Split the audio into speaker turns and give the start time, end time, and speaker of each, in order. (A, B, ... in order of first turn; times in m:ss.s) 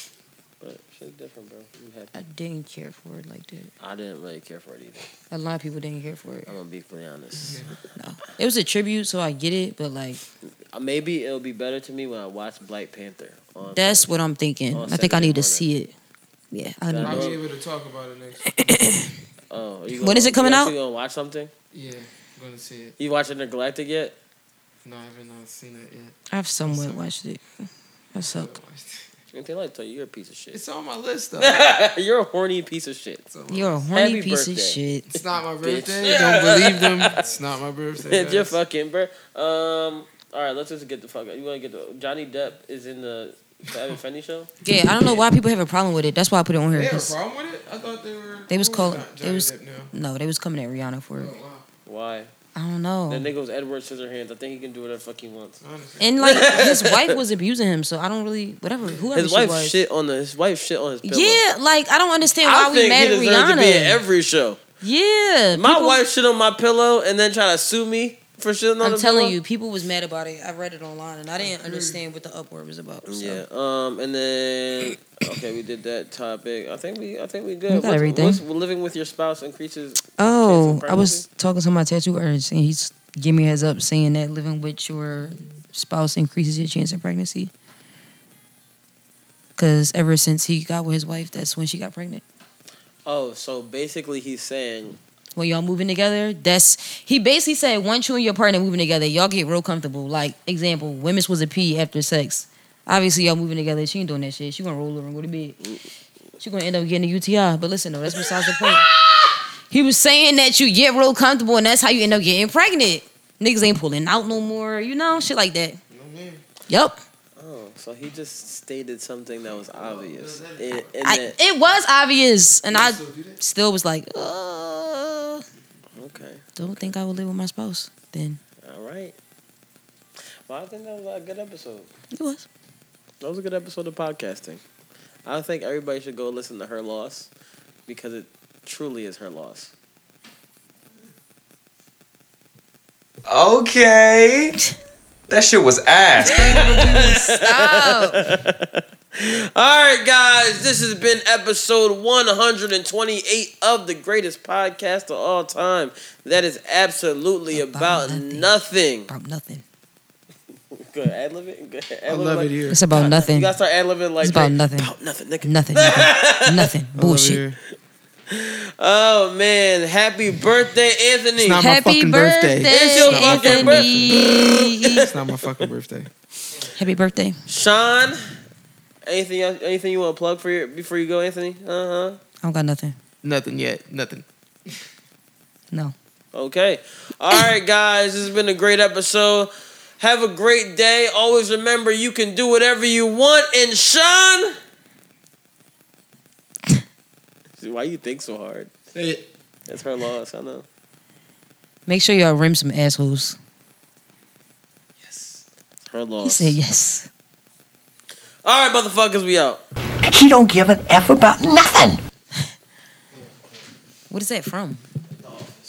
0:00.6-0:02.1 A
0:02.1-0:03.7 B
0:03.8-0:05.1 A
0:05.3-0:06.5 B
0:06.5-0:07.7 A
0:07.4-0:07.8 C
0:08.0-0:10.2 B
0:10.7-0:14.1 A
0:13.7-0:15.9 B
0:14.7-0:15.7 A
0:16.5-0:17.3 B
0:16.9-0:17.4 A
0:17.0-0:18.7 C
0:18.5-0:19.1 B
0:19.5-0:21.5 A
0:20.0-0:20.7 B
0:21.7-0:23.0 C
0:23.0-0:24.2 A
0:24.8-0:27.0 C
0:26.3-0:27.4 B
0:28.1-0:28.5 B
0:28.2-0:29.2 C
0:29.3-0:30.6 A
0:30.5-0:31.6 C
0:31.4-0:33.3 A
0:33.3-0:33.8 C
0:33.5-0:35.1 B
0:33.9-0:34.8 A
0:35.1-0:38.6 C
0:35.6-0:37.2 A
0:38.0-0:44.5 A
0:44.6-0:47.2 B
0:46.7-0:49.9 C
0:48.5-0:51.3 B
0:51.2-0:51.7 C
0:51.9-0:52.3 A
0:52.6-0:53.3 B
0:53.1-0:55.6 A
0:55.6-0:56.2 C
0:56.0-0:59.8 B
0:56.2-0:57.2 A
0:59.2-1:01.4 A
1:01.0-1:04.0 B
1:02.4-1:04.6 A
1:04.8-1:06.0 B
1:05.5-1:09.4 A
1:08.8-1:13.4 B
1:11.4-1:12.0 C
1:13.1-1:21.2 A
1:17.7-1:18.4 B
1:20.2-1:27.5 B
1:29.6-1:32.2 B
1:33.1-1:35.0 A
1:35.4-1:45.6 B
1:46.4-1:48.9 B
1:49.7-1:55.8 B
1:55.9-1:56.4 C
1:56.7-1:57.0 B
1:57.4-2:01.4 A
1:59.4-2:00.9 C
2:01.0-2:05.4 B
2:02.7-2:03.4 C
2:06.0-2:06.4 A
2:06.6-2:08.4 B
2:08.6-2:09.2 A
2:10.5-2:11.9 A
2:12.1-2:12.5 B
2:13.2-2:14.6 A
2:15.2-2:17.3 A
2:17.9-2:19.7 A
2:23.3-2:24.6 D
2:25.3-2:26.8 D
2:26.2-2:28.2 B
2:26.4-2:39.1 A
2:37.5-2:38.5 B
2:39.1-2:39.6 B
2:40.8-2:46.7 A
2:42.1-2:43.1 C
2:42.7-2:43.5 B
2:44.2-2:44.9 B
2:45.4-2:47.4 B
2:47.0-2:47.6 C
2:48.3-2:51.6 A
2:51.4-2:54.2 C
2:51.6-2:55.0 B
2:52.6-2:55.1 A
2:55.0-2:56.1 C
2:56.8-2:57.4 B
2:57.5-2:58.2 A
2:59.1-3:02.2 A
3:02.4-3:03.0 B
3:03.2-3:04.2 C
3:06.3-3:14.6 A
3:17.6-3:18.7 A
3:18.9-3:19.2 C
3:19.7-3:20.6 A
3:21.9-3:23.4 B
3:25.9-3:26.6 A
3:26.2-3:27.1 B
3:28.4-3:29.6 A
3:30.1-3:32.0 E
3:34.1-3:34.8 B